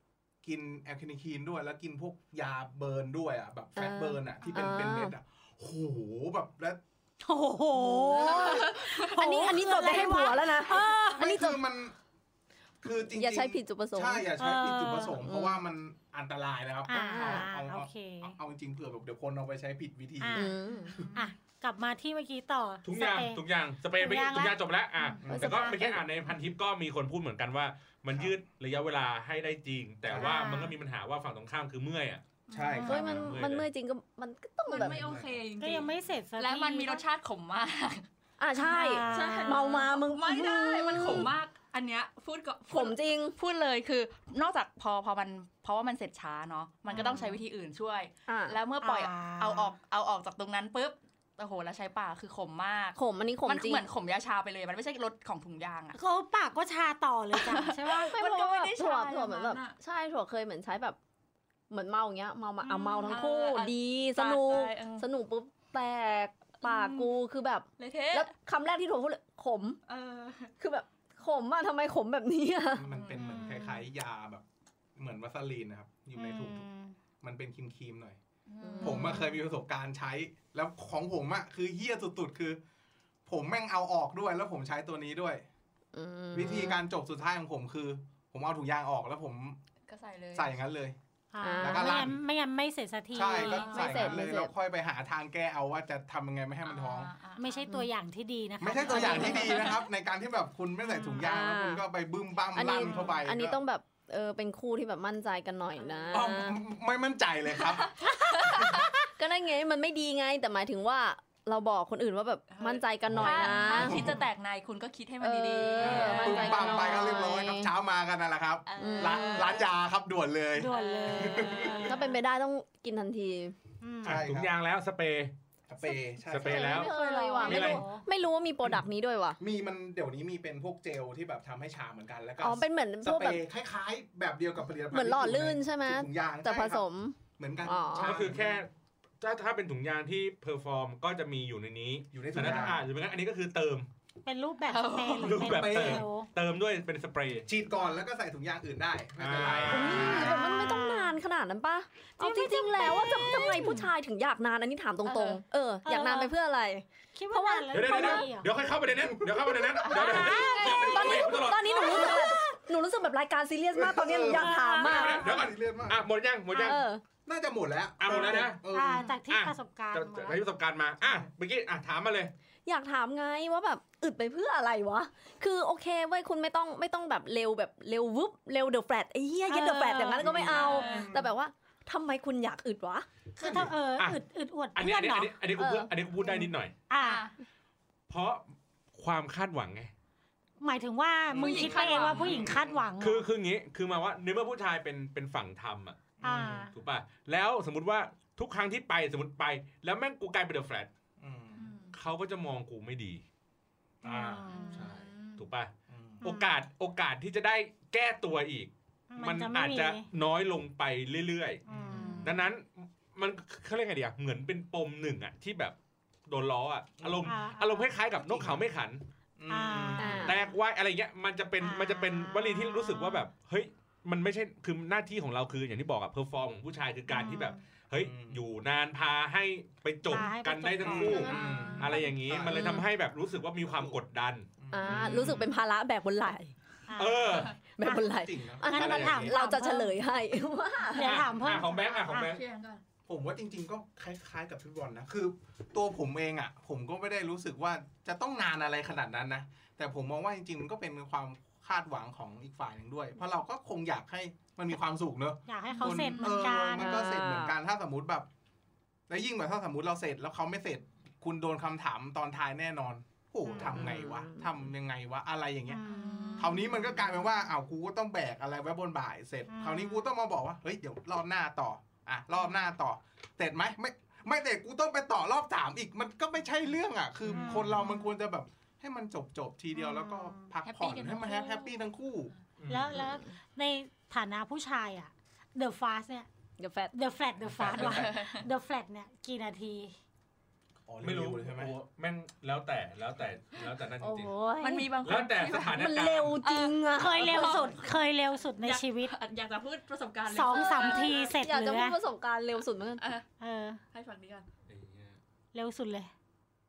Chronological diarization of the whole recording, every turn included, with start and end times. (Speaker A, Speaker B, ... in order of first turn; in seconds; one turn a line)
Speaker A: 0.4-6.8
Speaker B: 3.8-5.1
Speaker C: 7.2-11.4
Speaker B: 7.7-11.6
Speaker A: 8.1-8.6
Speaker D: 8.3-9.4
Speaker A: 11.1-12.0
Speaker A: 12.8-21.1
Speaker B: 13.1-14.3
Speaker C: 14.4-15.2
Speaker B: 15.2-15.6
Speaker C: 16.9-18.4
Speaker B: 16.9-17.5
Speaker C: 20.2-20.6
Speaker B: 20.4-21.1
Speaker D: 20.9-21.2
Speaker C: 21.1-23.4
Speaker E: 22.9-32.2
Speaker C: 24.0-24.6
Speaker D: 25.0-25.2
Speaker A: 25.2-25.6
Speaker B: 25.3-26.0
Speaker A: 30.1-30.4
Speaker D: 30.2-30.7
Speaker C: 30.3-30.6
Speaker D: 32.5-33.0
Speaker A: 32.5-33.3
Speaker B: 32.8-35.1
Speaker E: 32.9-33.7
Speaker D: 34.7-38.0
Speaker A: 34.7-35.4
Speaker C: 35.6-37.0
Speaker B: 38.4-41.4
Speaker C: 38.6-39.8
Speaker D: 39.0-56.0
Speaker A: 41.0-41.3
Speaker B: 42.7-43.4
Speaker B: 46.9-47.2
Speaker C: 46.9-47.2
Speaker B: 48.3-48.6
Speaker C: 48.8-49.7
Speaker B: 53.0-53.9
Speaker C: 56.0-58.1
Speaker D: 57.3-59.8
Speaker B: 58.1-61.0
Speaker B: 61.7-69.8
Speaker D: 62.6-65.1
Speaker D: 66.6-67.1
Speaker D: 67.8-68.3
Speaker D: 69.9-70.5
Speaker B: 70.6-72.9
Speaker A: 72.8-74.4
Speaker D: 72.9-73.7
Speaker C: 73.2-73.8
Speaker A: 75.0-76.7
Speaker C: 76.2-77.0
Speaker A: 77.2-78.2
Speaker D: 78.5-79.3
Speaker B: 78.6-79.3
Speaker A: 78.8-82.6
Speaker A: 83.3-85.4
Speaker B: 85.9-86.8
Speaker A: 86.3-89.6
Speaker D: 89.9-90.5
Speaker A: 90.3-91.0
Speaker C: 91.3-94.3
Speaker B: 91.4-92.1
Speaker A: 91.6-92.2
Speaker A: 93.1-97.1
Speaker B: 93.3-94.5
Speaker D: 93.4-94.1
Speaker D: 96.7-97.7
Speaker C: 97.4-99.8
Speaker A: 98.6-103.6
Speaker B: 98.9-99.6
Speaker D: 99.0-99.7
Speaker C: 100.9-101.2
Speaker B: 101.2-101.8
Speaker B: 102.5-106.6
Speaker D: 105.8-106.1
Speaker A: 106.1-108.9
Speaker D: 107.6-108.9
Speaker B: 108.3-114.2
Speaker D: 112.5-117.2
Speaker A: 113.1-114.2
Speaker B: 115.2-117.7
Speaker A: 115.8-121.9
Speaker E: 115.8-116.4
Speaker D: 118.7-119.7
Speaker B: 118.8-119.6
Speaker C: 120.6-122.2
Speaker D: 120.7-121.9
Speaker B: 121.8-123.5
Speaker C: 123.8-124.2
Speaker A: 124.0-124.5
Speaker E: 124.0-125.3
Speaker A: 125.7-126.9
Speaker B: 125.8-129.4
Speaker E: 126.3-126.9
Speaker D: 126.8-127.6
Speaker C: 127.2-128.0
Speaker E: 127.4-127.8
Speaker A: 129.4-136.8
Speaker B: 132.4-133.4
Speaker B: 134.9-138.2
Speaker A: 137.4-138.6
Speaker E: 138.0-138.7
Speaker E: 139.2-143.9
Speaker A: 142.1-142.8
Speaker C: 144.2-146.3
Speaker D: 144.7-145.5
Speaker E: 145.2-147.5
Speaker A: 145.4-146.0
Speaker A: 147.5-150.4
Speaker E: 149.2-150.1
Speaker B: 149.7-158.2
Speaker C: 149.7-151.2
Speaker C: 152.2-153.9
Speaker D: 155.1-155.4
Speaker C: 155.8-156.3
Speaker C: 157.2-158.5
Speaker E: 157.7-162.2
Speaker A: 158.9-160.4
Speaker D: 159.8-160.7
Speaker C: 159.9-162.4
Speaker B: 160.1-165.2
Speaker A: 163.8-166.1
Speaker C: 164.3-165.4
Speaker E: 164.8-166.8
Speaker B: 166.5-167.0
Speaker A: 167.3-169.1
Speaker E: 168.0-168.6
Speaker C: 168.1-170.4
Speaker E: 169.3-172.3
Speaker B: 172.7-183.1
Speaker C: 179.5-180.9
Speaker A: 180.2-181.2
Speaker D: 180.4-181.2
Speaker C: 183.4-185.3
Speaker A: 183.4-183.7
Speaker E: 183.4-184.2
Speaker E: 184.8-186.7
Speaker B: 185.6-186.5
Speaker C: 186.9-187.2
Speaker D: 187.0-187.4
Speaker E: 188.1-189.9
Speaker C: 190.6-193.3
Speaker A: 191.3-192.8
Speaker D: 191.3-192.5
Speaker E: 193.0-196.1
Speaker A: 196.2-196.7
Speaker C: 196.2-196.7
Speaker E: 196.7-200.9
Speaker A: 201.2-201.7
Speaker D: 201.6-201.9
Speaker E: 201.9-203.2
Speaker A: 204.0-205.1
Speaker C: 204.0-204.9
Speaker D: 204.5-205.5
Speaker E: 205.4-211.6
Speaker A: 205.9-206.2
Speaker C: 206.2-206.6
Speaker C: 209.1-210.1
Speaker A: 211.7-212.2
Speaker C: 211.7-212.4
Speaker D: 211.9-212.4
Speaker E: 212.2-215.8
Speaker E: 216.3-219.0
Speaker A: 217.0-217.3
Speaker C: 217.2-217.9
Speaker A: 218.2-218.7
Speaker A: 219.4-220.3
Speaker C: 219.5-220.4
Speaker B: 220.0-220.4
Speaker E: 220.2-235.4
Speaker C: 221.6-223.3
Speaker C: 227.1-227.4
Speaker A: 228.0-228.4
Speaker C: 230.1-232.1
Speaker A: 230.8-232.8
Speaker D: 231.2-231.8
Speaker B: 232.5-232.9
Speaker A: 233.7-234.0
Speaker A: 234.6-235.4
Speaker B: 234.7-236.5
Speaker C: 236.9-238.1
Speaker E: 237.0-237.6
Speaker B: 237.7-241.2
Speaker A: 238.2-239.4
Speaker C: 238.6-240.0
Speaker E: 238.8-239.2
Speaker C: 240.9-242.3
Speaker E: 241.0-242.4
Speaker D: 241.8-242.8
Speaker A: 243.1-258.3
Speaker C: 255.5-257.1
Speaker D: 255.7-256.4
Speaker B: 256.4-257.6
Speaker A: 259.1-265.8
Speaker C: 263.5-263.7
Speaker B: 263.6-264.5
Speaker C: 265.7-266.7
Speaker D: 265.9-267.1
Speaker A: 266.4-283.0
Speaker C: 269.5-270.1
Speaker C: 277.3-277.9
Speaker C: 279.8-280.4
Speaker D: 280.6-281.8
Speaker E: 282.6-283.0
Speaker C: 282.7-286.3
Speaker B: 283.0-283.3
Speaker B: 286.6-286.9
Speaker C: 286.9-289.9
Speaker E: 287.5-287.8
Speaker A: 287.6-288.1
Speaker D: 287.7-288.5
Speaker A: 290.9-291.7
Speaker E: 291.0-294.3
Speaker B: 294.0-295.0
Speaker D: 294.6-295.9
Speaker E: 295.0-296.4
Speaker B: 295.7-297.7
Speaker D: 296.4-297.8
Speaker C: 296.9-299.1
Speaker D: 298.6-301.4
Speaker C: 300.3-302.0
Speaker B: 300.6-303.1
Speaker D: 303.0-303.2
Speaker C: 303.4-303.8
Speaker D: 303.9-304.4
Speaker E: 304.7-305.2
Speaker C: 305.5-306.1